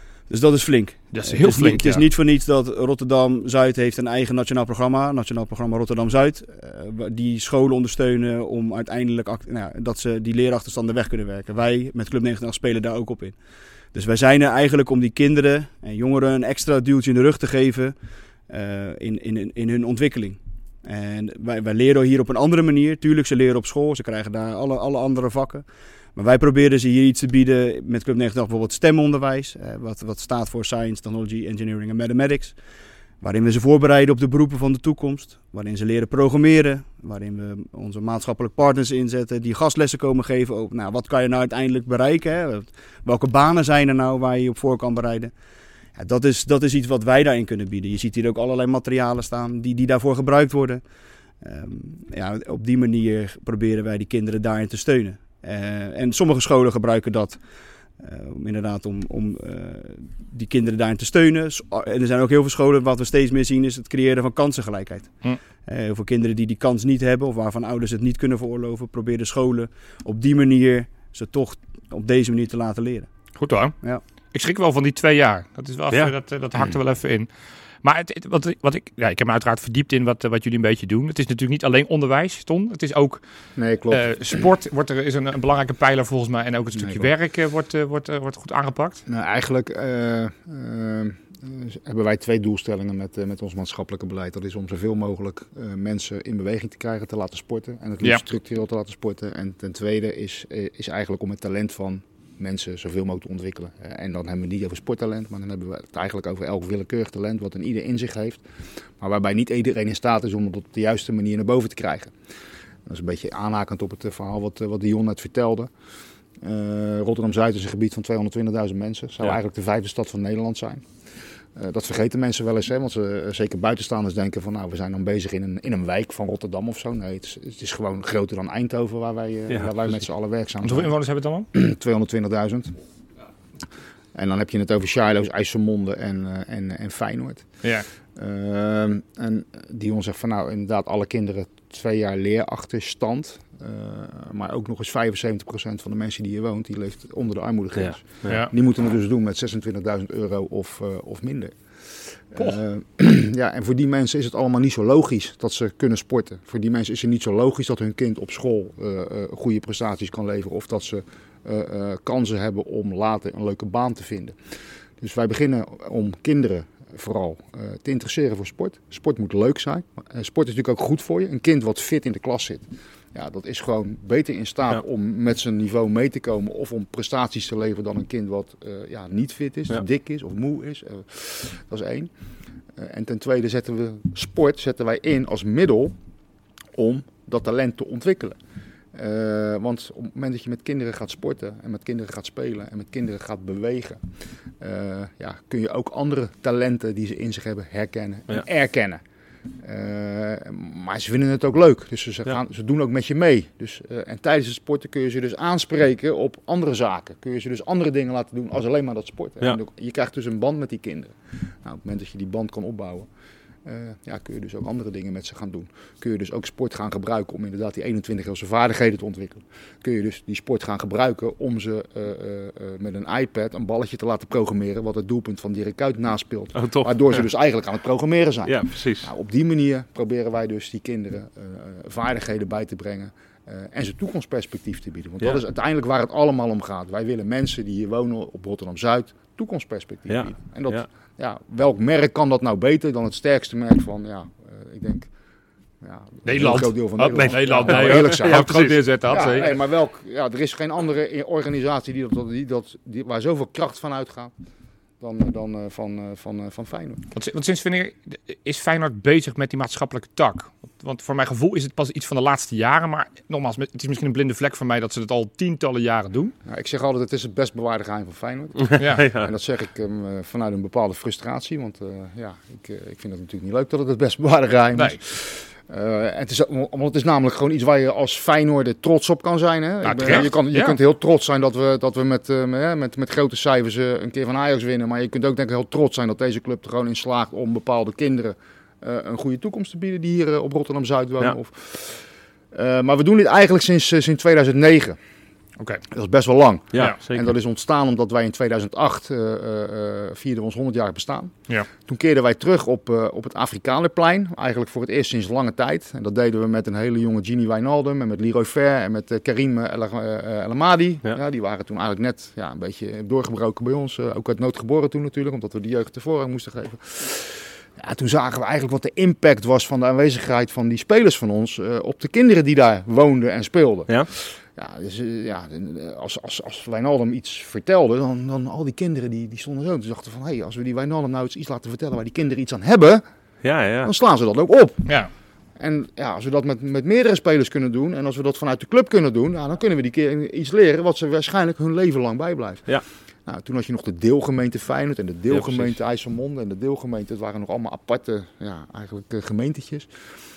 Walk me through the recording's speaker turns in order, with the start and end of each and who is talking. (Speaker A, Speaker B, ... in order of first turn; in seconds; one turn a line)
Speaker A: 0.3-13.4
Speaker B: 1.1-2.0
Speaker A: 13.9-17.9
Speaker A: 18.5-32.5
Speaker A: 33.2-45.3
Speaker A: 46.0-50.8
Speaker A: 51.4-57.4
Speaker A: 58.0-73.1
Speaker B: 73.4-73.7
Speaker B: 74.3-77.3
Speaker B: 77.8-83.2
Speaker C: 83.5-84.4
Speaker B: 83.9-89.0
Speaker C: 86.8-87.1
Speaker C: 89.1-108.4
Speaker C: 109.0-112.1
Speaker C: 112.8-115.7
Speaker C: 116.4-120.8
Speaker C: 121.5-130.9
Speaker B: 130.6-131.5
Speaker C: 131.5-132.7
Speaker C: 134.1-137.5
Speaker C: 138.2-151.5
Speaker D: 147.8-148.4
Speaker C: 152.3-164.3
Speaker C: 165.0-182.1
Speaker C: 182.8-185.9
Speaker C: 186.7-188.4
Speaker C: 188.9-194.0
Speaker C: 194.6-199.0
Speaker C: 199.6-213.1
Speaker C: 213.6-245.1
Speaker D: 226.5-227.2
Speaker D: 228.4-229.1
Speaker D: 240.1-240.8
Speaker C: 245.8-248.5
Speaker B: 246.2-249.5
Speaker D: 247.1-249.5
Speaker C: 249.1-254.3
Speaker C: 255.0-257.1
Speaker B: 257.1-266.3
Speaker C: 266.4-292.0
Speaker D: 268.6-269.3
Speaker B: 268.8-269.1
Speaker B: 279.8-280.8
Speaker C: 292.5-295.0
Speaker C: 295.9-333.0
Speaker D: 296.7-297.3
Speaker D: 333.4-333.9
Speaker C: 333.8-334.9
Speaker B: 334.8-335.1
Speaker C: 335.6-342.7
Speaker C: 343.2-349.9
Speaker D: 345.3-345.7